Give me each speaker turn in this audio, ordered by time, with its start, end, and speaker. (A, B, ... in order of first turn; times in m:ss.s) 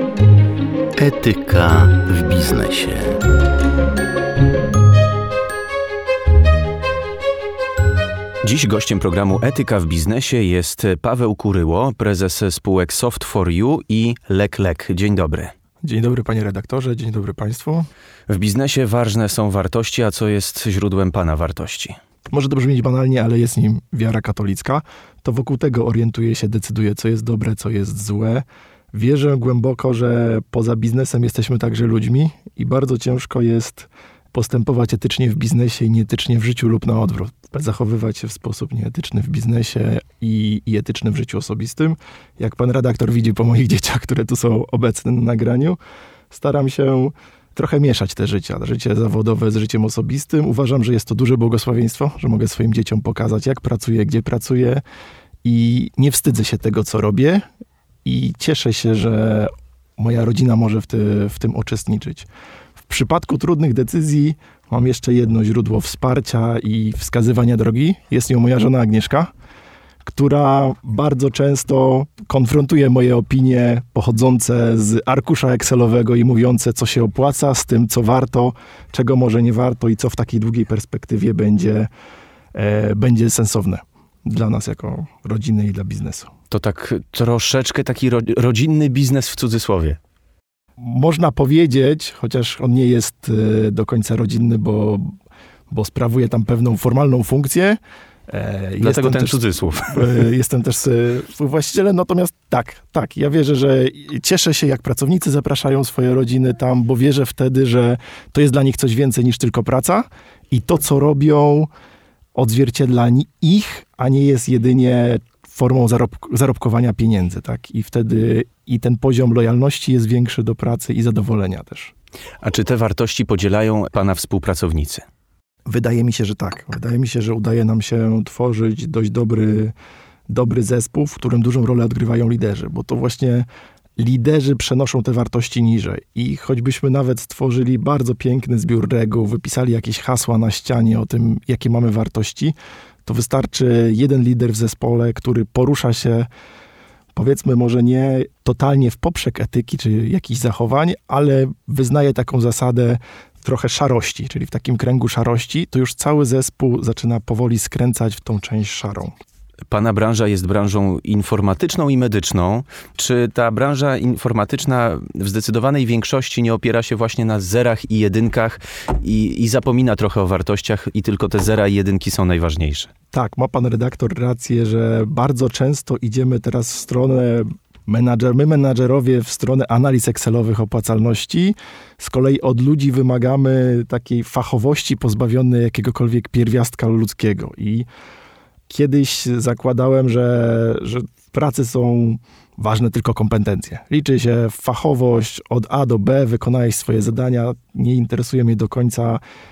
0:01.0-0:03.2 A
0:08.4-0:15.5 B
0:15.8-0:17.9 C
0:18.3-0:22.0 B
0:22.3-0:45.8 C
0:46.3-0:54.8 C
0:55.4-0:57.5 C
0:58.0-1:02.3 C
1:02.9-1:09.3 C
1:10.0-1:21.9 C
1:22.5-1:26.3 C
1:26.5-1:30.0 B
1:30.8-1:35.2 C
1:35.7-1:39.4 C
1:38.8-1:40.2 B
1:39.9-1:51.7 C
1:52.4-2:01.9 C
2:02.4-2:05.0 B
2:05.7-2:09.7 C
2:10.3-2:13.5 C
2:14.0-2:26.3 C
2:27.2-2:39.1 C
2:39.7-2:52.9 B
2:53.1-3:07.9 C
3:08.7-3:19.2 C